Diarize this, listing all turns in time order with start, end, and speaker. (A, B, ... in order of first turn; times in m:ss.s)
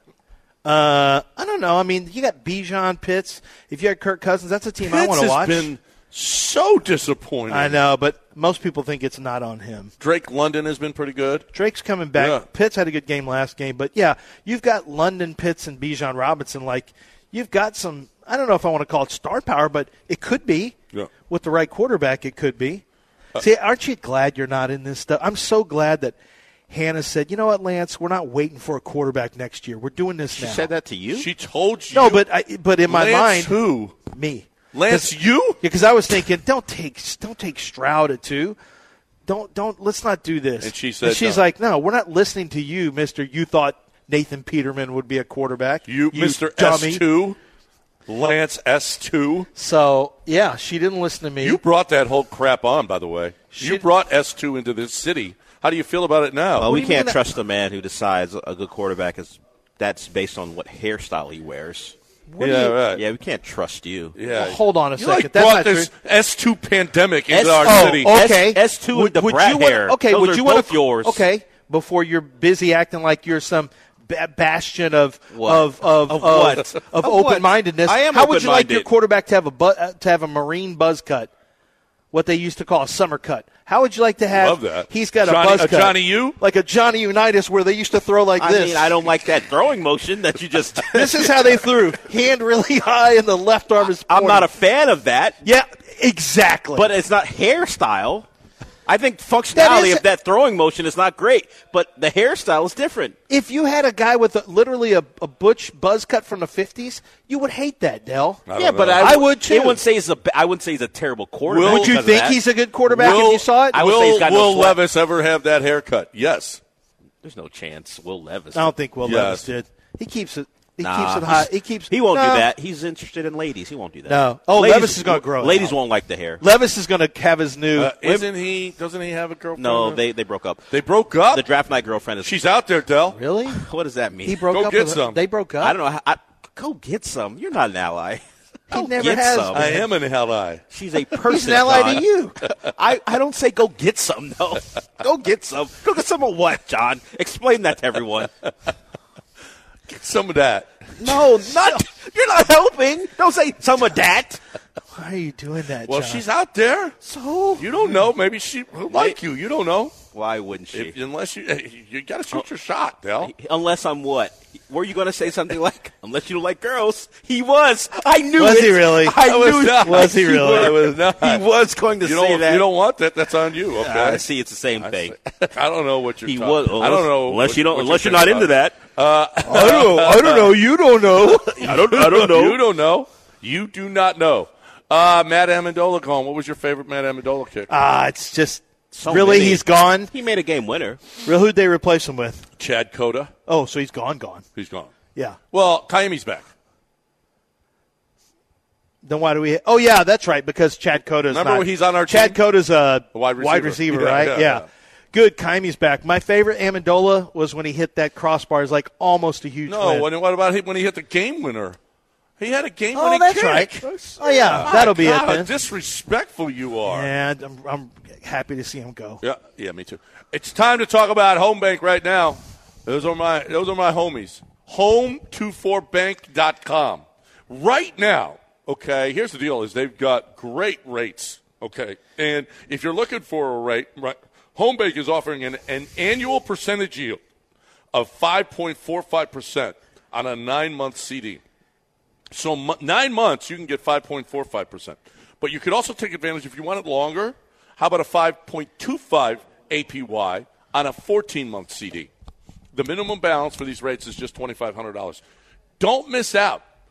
0:00.6-0:05.7 A
0:04.8-0:07.8 B
0:07.5-0:09.9 A
0:10.0-0:11.5 B
0:11.5-0:20.8 A
0:12.2-0:12.4 B
0:21.3-0:22.8 A
0:23.4-0:26.2 A
0:26.7-0:30.7 A
0:30.4-0:31.3 C
0:31.1-0:32.2 B
0:31.9-0:38.6 A
0:32.9-0:34.0 B
0:34.7-0:35.6 B
0:39.3-0:47.0 A
0:40.6-0:41.4 B
0:45.9-0:47.4 B
0:48.1-0:49.5 B
0:49.6-0:51.6 A
0:51.4-0:56.7 B
0:53.5-0:53.9 A
0:56.6-1:02.0 C
0:56.6-0:57.2 A
1:02.3-1:02.8 A
1:02.4-1:03.0 B
1:02.9-1:04.1 C
1:04.1-1:08.1 B
1:04.3-1:05.9 A
1:07.3-1:11.2 C
1:07.6-1:21.3 A
1:15.3-1:18.9 C
1:22.1-1:29.0 A
1:24.3-1:26.4 B
1:28.4-1:31.6 C
1:30.9-1:34.5 A
1:34.1-1:35.4 C
1:35.4-1:36.9 A
1:36.8-1:38.3 C
1:38.9-1:43.2 C
1:39.5-1:40.0 A
1:43.3-1:48.4 A
1:48.5-1:49.2 B
1:48.6-1:54.8 C
1:49.0-1:49.8 A
1:51.5-1:52.0 B
1:51.6-1:53.8 A
1:52.9-1:56.6 B
1:57.2-1:58.7 C
1:58.5-2:02.5 A
1:59.0-1:59.4 B
2:00.8-2:06.4 C
2:04.1-2:05.8 A
2:06.4-2:08.0 A
2:07.8-2:10.0 B
2:09.6-2:10.6 C
2:10.7-2:11.4 B
2:11.3-2:12.4 C
2:12.2-2:13.2 B
2:13.1-2:13.6 A
2:13.5-2:14.4 C
2:14.2-2:15.8 A
2:14.5-2:15.2 B
2:15.6-2:19.8 C
2:18.7-2:19.9 A
2:19.5-2:20.6 B
2:20.7-2:28.3 C
2:21.3-2:22.4 A
2:29.9-2:31.3 B
2:31.0-2:34.4 C
2:34.9-2:36.2 A
2:35.9-2:37.0 B
2:37.0-2:37.7 C
2:37.6-2:39.9 B
2:38.9-2:39.2 C
2:40.1-2:40.9 C
2:40.7-2:43.3 B
2:43.2-2:52.6 C
2:48.4-2:49.2 A
2:49.2-2:51.4 B
2:49.8-2:50.8 A
2:52.0-2:54.2 B
2:53.8-2:55.2 C
2:54.8-3:07.7 B
2:56.2-2:58.8 C
2:59.4-3:01.8 A
3:01.6-3:02.6 C
3:07.7-3:10.1 A
3:08.9-3:11.0 C
3:11.2-3:12.4 A
3:12.6-3:13.3 B
3:13.5-3:14.4 A
3:14.6-3:14.9 B
3:15.5-3:16.4 B
3:19.0-3:30.1 A
3:21.3-3:22.4 B
3:23.1-3:24.6 B
3:29.7-3:31.8 B
3:32.4-3:33.9 B
3:32.9-3:35.5 A
3:33.8-3:34.8 C
3:34.5-3:37.1 B
3:36.8-3:39.2 A
3:39.2-3:57.2 B
3:57.9-4:01.4 B
4:02.3-4:12.1 B
4:12.7-4:15.2 B
4:15.8-4:16.6 B